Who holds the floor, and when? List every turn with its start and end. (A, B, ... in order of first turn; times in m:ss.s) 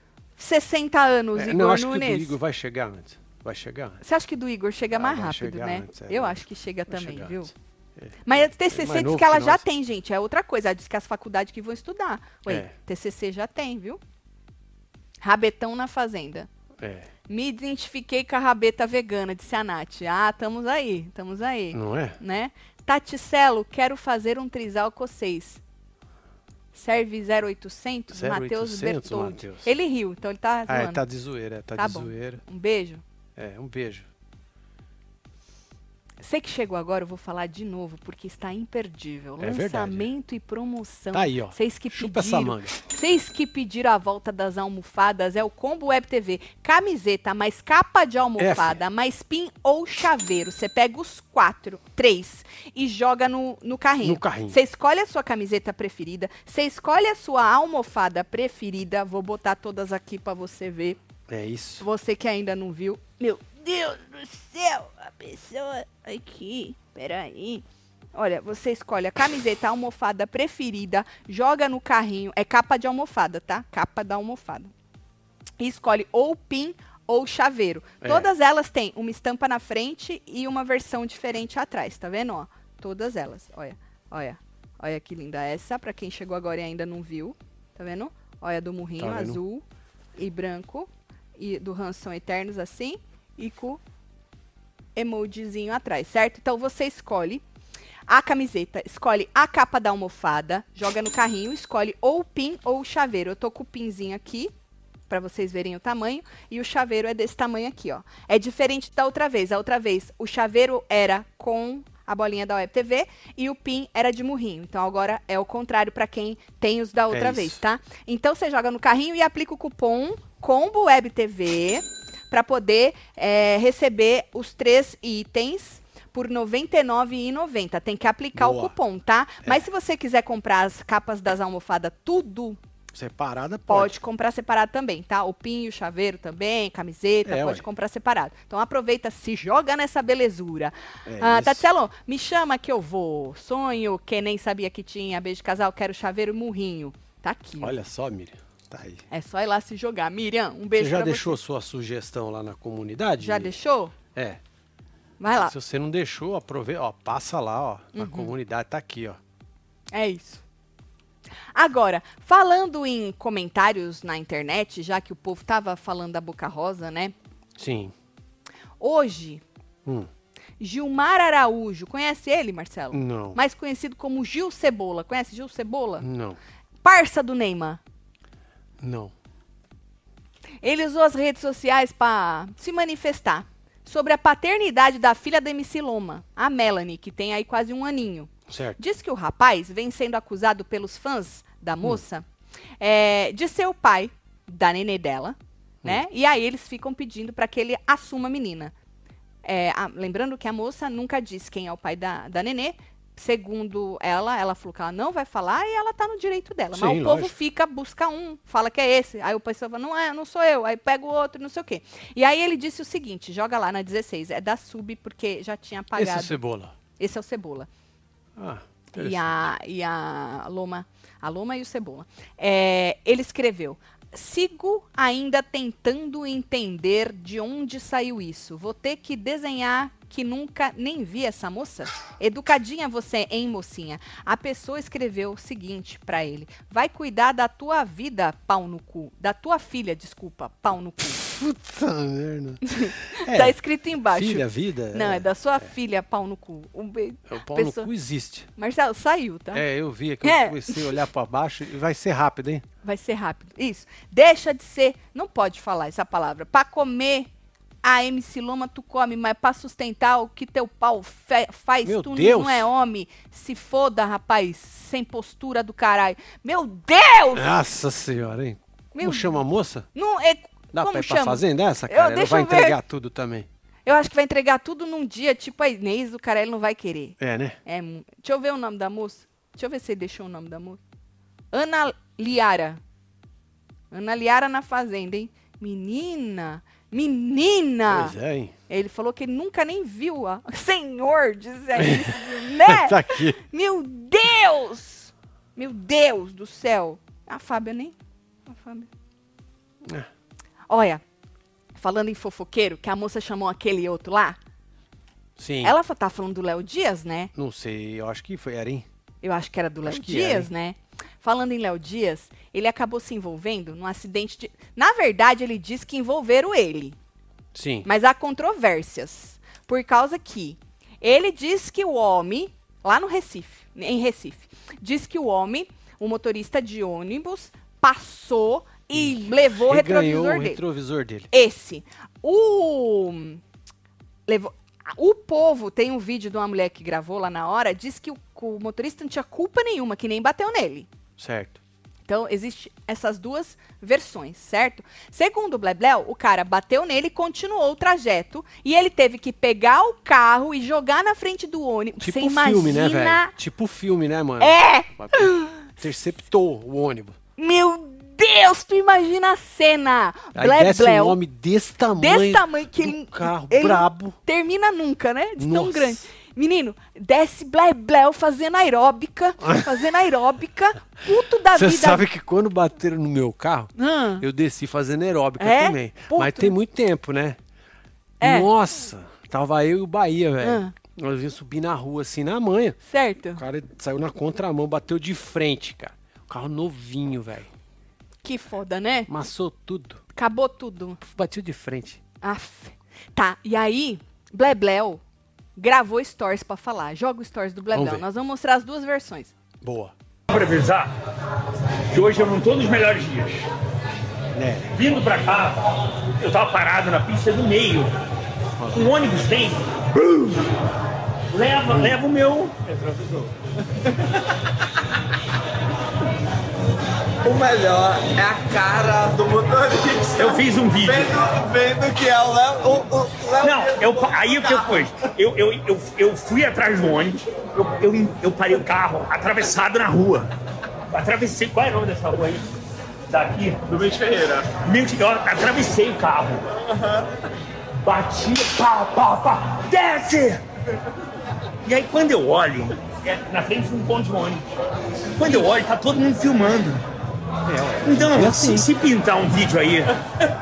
0:00.4-0:02.4 A
0:01.3-0:04.0 B
0:04.0-0:07.5 A
0:04.9-0:09.6 B
0:08.2-0:14.0 A
0:12.4-0:12.7 B
0:15.2-0:16.5 A
0:16.8-0:17.1 B
0:17.3-0:25.6 A
0:21.7-0:22.2 B
0:26.7-0:31.0 A
0:28.1-0:29.7 B
0:30.7-0:32.4 B
0:31.8-0:33.0 A
0:33.4-0:34.1 B
0:36.2-1:01.0 A
0:39.4-0:40.1 B
0:41.1-0:42.8 B
0:48.4-0:48.8 B
0:54.0-0:54.6 B
1:01.3-1:01.8 B
1:01.8-1:14.7 A
1:15.6-1:29.6 A
1:18.0-1:18.3 B
1:29.0-1:29.4 B
1:30.2-1:33.8 A
1:34.9-1:37.4 A
1:38.1-1:44.5 A
1:45.1-2:12.6 A
1:57.1-1:57.6 B
2:08.3-2:08.7 B
2:12.9-2:13.9 B
2:13.7-2:27.8 A
2:17.2-2:17.6 B
2:21.0-2:21.6 B
2:27.6-2:29.0 B
2:29.1-2:31.4 A
2:30.8-2:33.5 B
2:33.2-2:33.9 A
2:34.1-2:34.4 B
2:35.2-2:35.5 A
2:35.4-2:39.2 B
2:37.9-2:38.3 A
2:39.9-2:40.4 A
2:41.5-2:47.1 A
2:47.6-2:47.9 B
2:48.8-2:49.4 A
2:49.8-2:50.1 B
2:50.6-2:56.0 A
2:52.9-2:53.4 B
2:56.0-2:56.4 B
2:56.8-2:57.8 A
2:58.8-2:59.1 B
3:00.6-3:12.2 A
3:08.5-3:08.8 B
3:12.8-3:18.7 A
3:19.4-3:36.4 A
3:26.7-3:27.3 B
3:35.9-3:36.7 B
3:37.0-3:37.7 A
3:38.4-3:39.5 B
3:38.9-4:01.2 A
4:01.2-4:05.7 B
4:02.6-4:07.9 A
4:07.3-4:08.5 B
4:08.6-4:09.6 A
4:09.5-4:12.6 B
4:10.2-4:11.0 A
4:12.8-4:17.3 A
4:17.8-4:27.6 A
4:21.8-4:22.7 B
4:27.3-4:29.9 B
4:28.9-4:29.4 A
4:29.9-4:32.8 A
4:30.7-4:33.5 B
4:33.8-4:40.8 A
4:37.2-4:37.6 B
4:41.5-4:42.8 A
4:43.9-4:48.2 A
4:47.9-4:48.5 B
4:48.7-4:57.9 A
4:51.7-4:53.4 B
4:58.5-4:58.9 A
4:59.8-5:00.1 B
5:00.7-5:01.0 A
5:01.7-5:04.4 A
5:05.4-5:05.8 B
5:05.6-5:07.3 A
5:07.3-5:08.9 B
5:09.2-5:17.0 A
5:09.8-5:10.5 B
5:17.5-5:17.9 B
5:17.8-5:30.6 A
5:28.9-5:31.3 B
5:31.3-5:33.4 A
5:34.3-5:40.9 A
5:41.2-5:41.6 B
5:42.1-5:53.3 A
5:52.0-5:57.2 B
5:54.4-5:55.6 A
5:57.4-6:01.2 A
6:00.3-6:04.2 B
6:02.0-6:12.1 A
6:05.4-6:06.0 B
6:09.4-6:09.7 B
6:11.5-6:17.4 B
6:13.8-6:14.2 A
6:15.4-6:16.6 A
6:18.2-6:18.5 A
6:18.2-6:22.8 B
6:20.4-6:20.7 A
6:22.8-6:23.4 A
6:23.3-6:27.5 B
6:28.2-6:29.1 A
6:29.1-6:30.0 B
6:30.1-6:31.0 A
6:31.0-6:32.0 B
6:32.2-6:35.0 A
6:35.6-6:39.3 A
6:37.7-6:38.0 B
6:39.6-6:39.9 B
6:40.3-6:40.9 C
6:41.9-6:43.5 C
6:44.3-6:44.8 B
6:44.7-6:47.9 C
6:48.6-6:48.9 B
6:48.7-6:50.5 C
6:51.3-6:52.9 C
6:51.6-6:52.0 B
6:52.9-6:53.3 D
6:57.2-7:04.8 D
7:00.2-7:01.3 C
7:03.4-7:10.3 C
7:10.9-7:12.5 C
7:13.1-7:13.6 C
7:13.7-7:14.5 D
7:14.6-7:16.4 C
7:16.7-7:17.0 D
7:17.8-7:20.4 C
7:21.6-7:24.4 C
7:25.2-7:26.8 C
7:27.4-7:28.7 B
7:27.8-7:30.0 C